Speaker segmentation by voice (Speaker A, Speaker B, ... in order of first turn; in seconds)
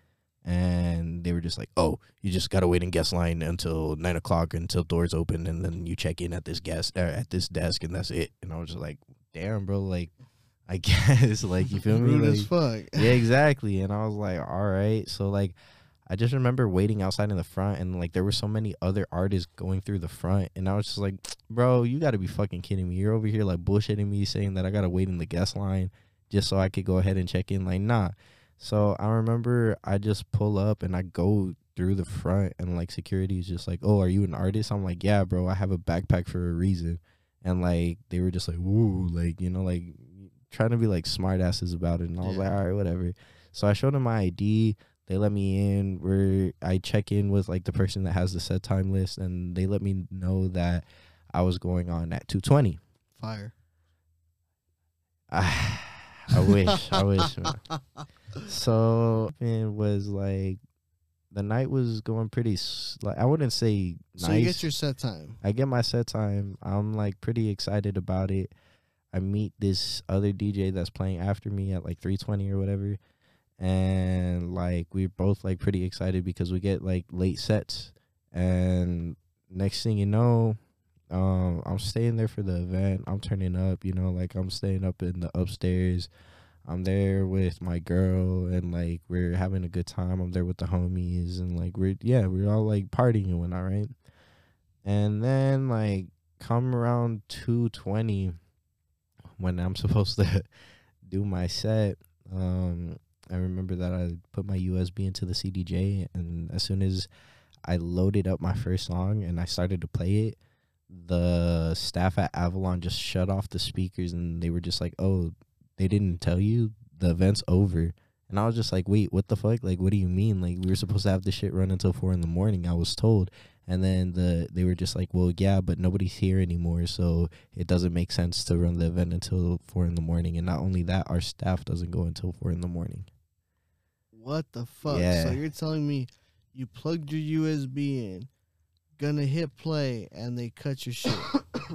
Speaker A: 0.4-10.1, 10.7-15.6, 16.1-52.8, 55.3-57.6, 58.4-60.6, 61.3-64.7, 65.4-68.5, 69.1-73.0, 73.6-80.6, 81.1-86.1, 86.6-93.9, 94.8-98.4, 99.4-100.5, 101.0-107.1, 107.6-110.4, 110.9-133.1, 134.9-135.4
Speaker B: 11.8-13.1, 53.2-53.5, 57.0-57.5, 64.2-65.4, 134.1-138.3, 139.0-141.4